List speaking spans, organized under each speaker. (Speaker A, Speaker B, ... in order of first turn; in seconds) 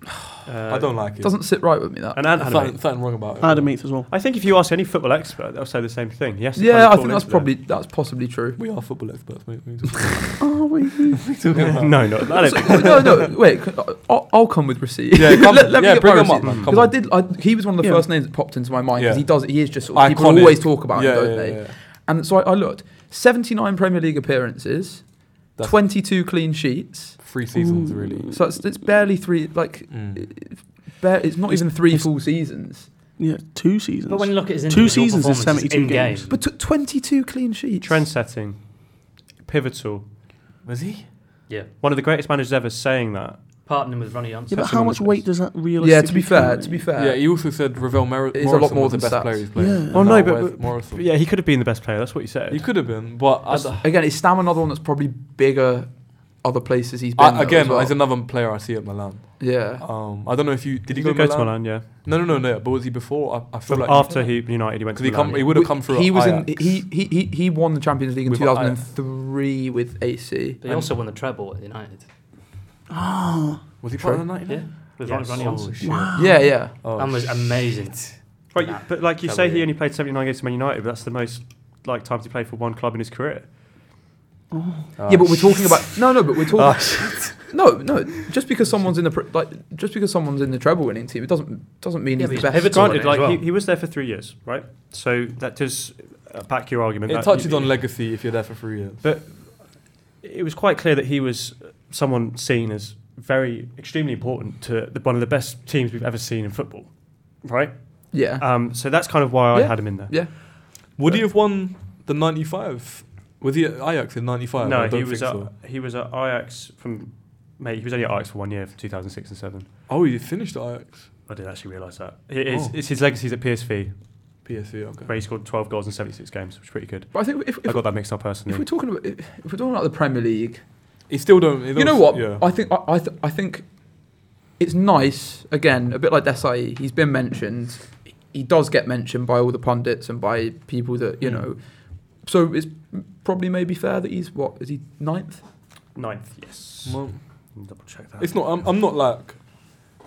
Speaker A: 0.5-1.0, 2.1-3.0, 4.1-7.5, 11.6-13.0, 16.4-16.7, 37.8-40.0, 41.8-43.4, 44.6-45.2, 49.9-52.7, 60.9-61.8, 63.7-65.5, 75.0-75.7, 78.5-83.5, 86.7-87.3, 92.6-97.8, 99.0-110.2, 114.6-119.7, 121.2-124.0, 125.1-128.6, 145.9-148.5
Speaker B: 0.7-1.4, 2.3-3.8, 8.6-10.5, 11.2-13.3, 15.1-17.0, 18.9-21.8, 27.2-28.4, 29.9-30.3, 40.6-41.0, 46.9-51.0, 52.5-54.0, 57.1-66.8, 68.3-68.8, 73.8-78.0, 85.0-85.8, 86.6-87.4, 97.1-99.0, 110.9-115.5, 119.9-121.1, 122.5-122.7, 124.4-125.1, 131.1-132.4, 146.8-147.2, 148.2-149.7
Speaker C: 1.2-2.2, 6.5-8.6, 12.3-27.2, 28.3-32.9, 36.3-38.0, 45.8-47.2, 48.3-49.5, 53.5-58.0, 59.4-59.9, 65.5-70.9, 76.1-76.8, 85.1-93.1, 108.1-108.8, 109.5-111.2, 127.1-130.6, 131.7-145.4
Speaker D: 3.4-4.1, 10.4-11.3, 17.8-18.1, 27.5-28.4, 31.5-32.1, 33.2-36.3, 44.5-46.9, 49.5-50.0, 72.9-73.7, 75.8-76.4, 84.5-84.9
Speaker E: 34.1-36.4, 43.6-44.9, 70.6-72.1, 74.5-79.7, 92.2-93.5